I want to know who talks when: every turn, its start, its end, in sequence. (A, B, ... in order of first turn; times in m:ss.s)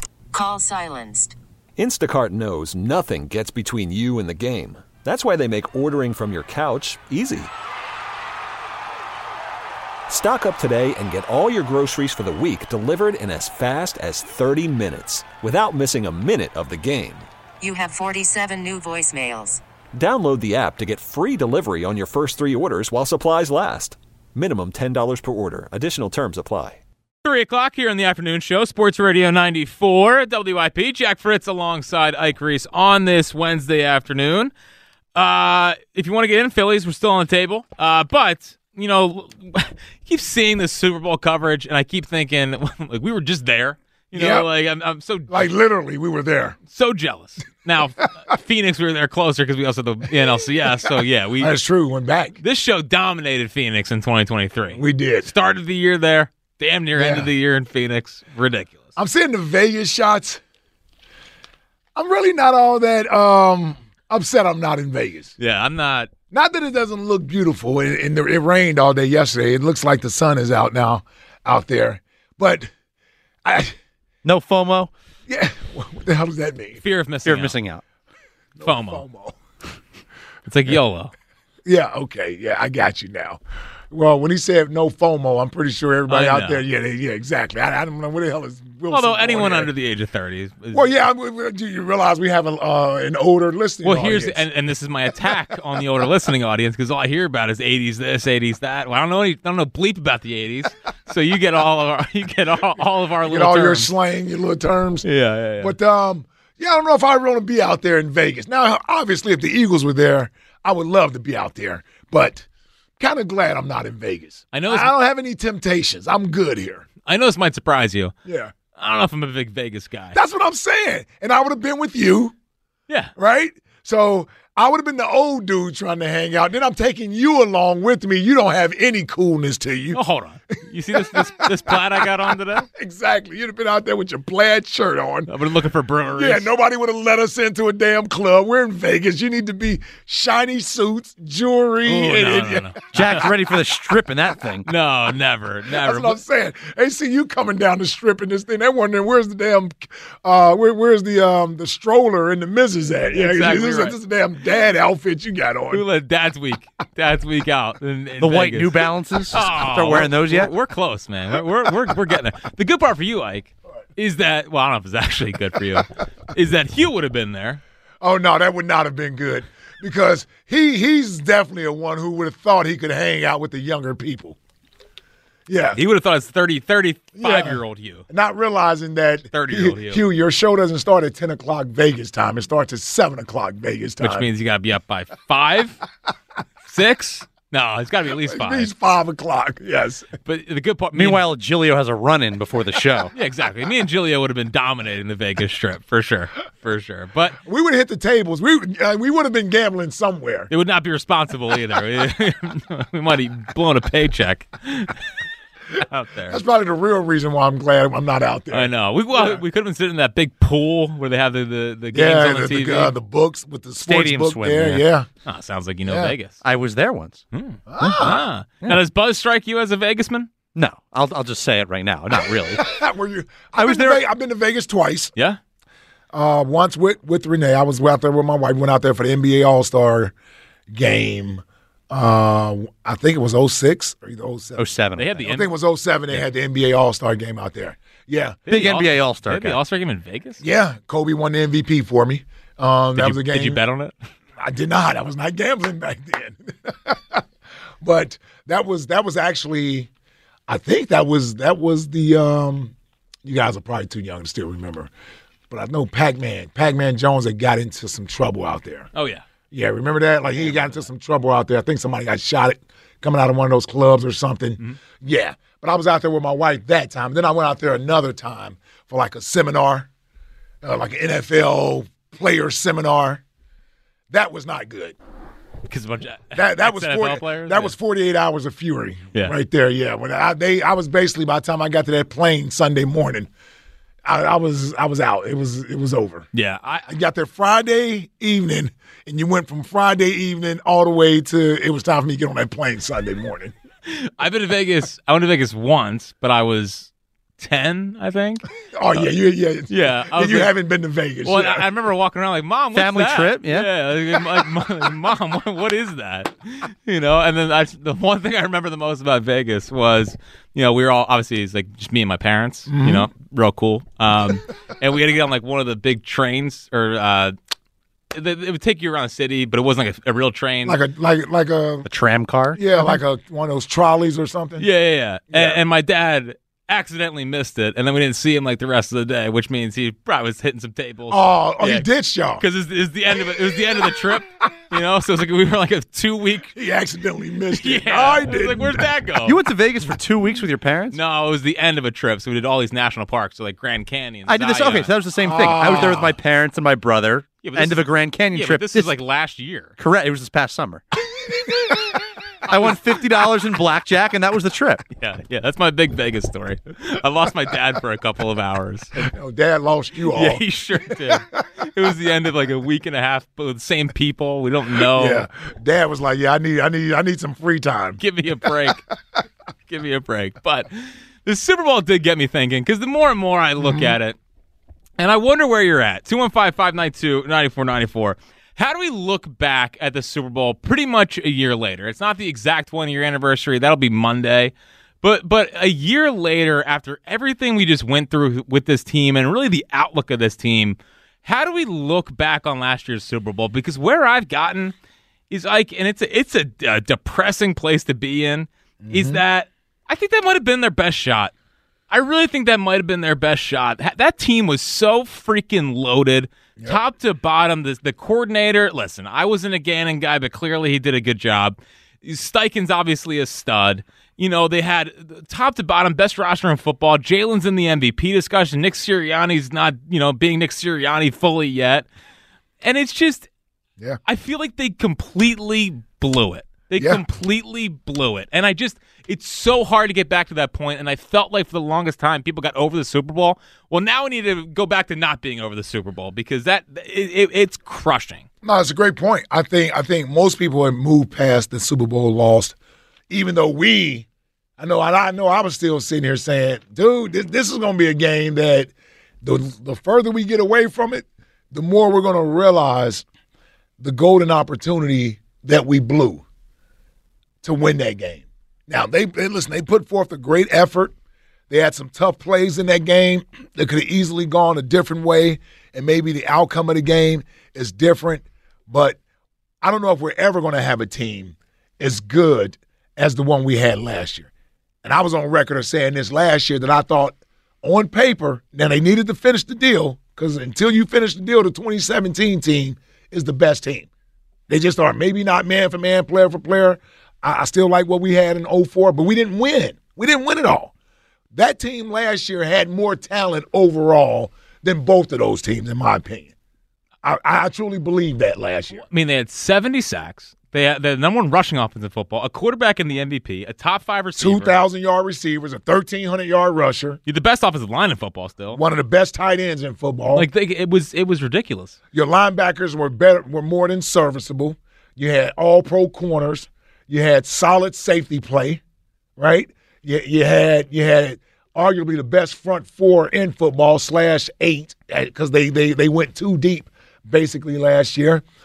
0:00.3-0:01.4 A
0:01.8-0:07.5 B
0:10.1-0:17.3 B
0:17.6-0:19.6 A
0:19.9-0:26.8 B
0:27.2-0:34.5 C
0:35.2-0:45.5 C
0:44.1-0:44.5 D
0:45.3-0:46.6 D
0:46.7-0:51.5 C
0:50.8-0:52.4 D
0:52.4-0:58.9 C
0:54.7-0:55.3 D
0:57.0-0:57.3 D
0:59.0-1:00.4 D
1:02.0-1:05.4 D
1:05.4-1:06.1 C
1:06.3-1:12.7 D
1:13.4-1:13.8 D
1:14.2-1:14.9 E
1:15.3-1:16.8 D
1:16.8-1:17.6 C
1:17.3-1:17.8 E
1:18.6-1:19.4 D
1:18.6-1:19.0 C
1:20.5-1:21.1 C
1:21.7-1:29.7 D
1:26.1-1:26.6 C
1:28.9-1:30.9 C
1:30.7-1:34.5 D
1:33.8-1:43.9 C
1:43.2-1:45.1 D
1:45.0-1:45.7 C
1:45.6-1:52.5 D
1:53.0-1:56.9 D
1:54.5-1:54.9 C
1:57.0-1:58.1 C
1:58.2-1:58.5 D
1:58.8-2:00.2 C
2:00.1-2:02.3 D
2:03.2-2:10.0 D
2:09.9-2:12.7 C
2:10.9-2:15.3 D
2:15.3-2:16.5 C
2:16.2-2:23.3 D
2:21.8-2:23.3 C
2:22.9-2:24.6 E
2:24.6-2:26.2 C
2:25.7-2:35.9 D
2:33.1-2:34.0 C
2:35.7-2:47.6 C
2:38.2-2:40.5 E
2:48.0-2:54.4 D
2:55.5-2:55.8 D
2:55.8-2:58.1 C
2:57.2-3:04.3 D
2:59.3-3:00.0 C
3:04.0-3:05.8 C
3:06.7-3:08.7 C
3:08.2-3:10.1 D
3:10.2-3:11.2 C
3:10.9-3:13.1 E
3:13.1-3:17.4 C
3:17.4-3:20.5 D
3:20.5-3:25.1 C
3:25.8-3:26.4 C
3:26.2-3:29.4 D
3:28.5-3:32.9 C
3:31.9-3:35.1 D
3:33.9-3:34.8 E
3:35.3-3:36.4 C
3:35.9-3:36.2 D
3:36.4-3:37.2 E
3:37.3-3:40.3 C
3:37.7-3:38.2 D
3:40.6-3:42.7 E
3:42.1-3:45.1 D
3:43.6-3:44.0 E
3:46.1-3:50.1 D
3:50.7-3:58.4 D
3:54.6-3:55.1 E
3:55.0-3:55.5 C
3:58.5-4:00.4 C
3:58.5-3:59.6 E
4:00.4-4:03.6 D
4:03.0-4:03.9 C
4:04.4-4:07.2 D
4:07.8-4:09.9 D
4:10.5-4:12.7 D
4:13.2-4:14.9 D
4:15.5-4:18.9 D
4:19.0-4:19.2 C
4:19.5-4:29.9 D
4:20.4-4:20.9 C
4:30.6-4:33.2 D
4:34.1-4:35.0 D
4:35.7-4:37.7 C
4:36.3-4:43.3 D
4:44.0-4:46.3 D
4:46.3-4:46.9 C
4:46.9-4:53.5 D
4:53.9-4:59.1 C
4:58.7-5:01.7 D
4:59.7-5:00.5 C
5:01.2-5:17.3 C
5:02.7-5:03.7 E
5:12.7-5:13.1 D
5:18.1-5:20.8 C
5:20.6-5:21.9 D
5:21.8-5:22.6 E
5:22.6-5:24.7 D
5:24.6-5:31.9 C
5:25.3-5:25.6 D
5:31.1-5:32.4 D
5:32.4-5:36.5 C
5:33.3-5:33.9 D
5:36.5-5:38.9 D
5:37.5-5:39.4 C
5:39.2-5:41.0 E
5:40.9-5:44.9 C
5:44.3-5:48.9 E
5:45.2-5:46.2 D
5:45.6-5:45.8 C
5:47.4-5:49.8 C
5:49.8-5:50.8 E
5:52.4-5:54.9 E
5:52.5-5:52.8 C
5:54.9-5:59.0 C
5:59.0-6:01.4 D
6:00.1-6:05.3 C
6:04.8-6:08.5 D
6:08.0-6:08.8 C
6:09.7-6:10.7 C
6:11.2-6:14.2 C
6:13.6-6:14.0 D
6:15.0-6:34.7 C
6:35.3-6:41.3 C
6:38.8-6:39.2 D
6:41.9-7:01.9 C
7:02.6-7:03.3 C
7:04.0-7:18.2 C
7:06.8-7:07.0 D
7:18.4-7:22.6 D
7:23.1-7:24.1 D
7:24.6-7:28.7 D
7:29.2-7:33.0 D
7:33.8-7:36.2 D
7:37.4-7:40.9 D
7:41.5-7:49.0 D
7:49.6-7:54.3 D
7:54.8-8:03.9 D
8:04.5-8:10.7 D
8:11.3-8:16.3 D
8:17.0-8:18.8 D
8:18.8-8:24.6 C
8:24.2-8:27.0 D
8:27.1-8:28.6 C
8:28.5-8:30.3 D
8:30.1-8:31.8 C
8:31.9-8:38.6 D
8:39.2-8:48.2 D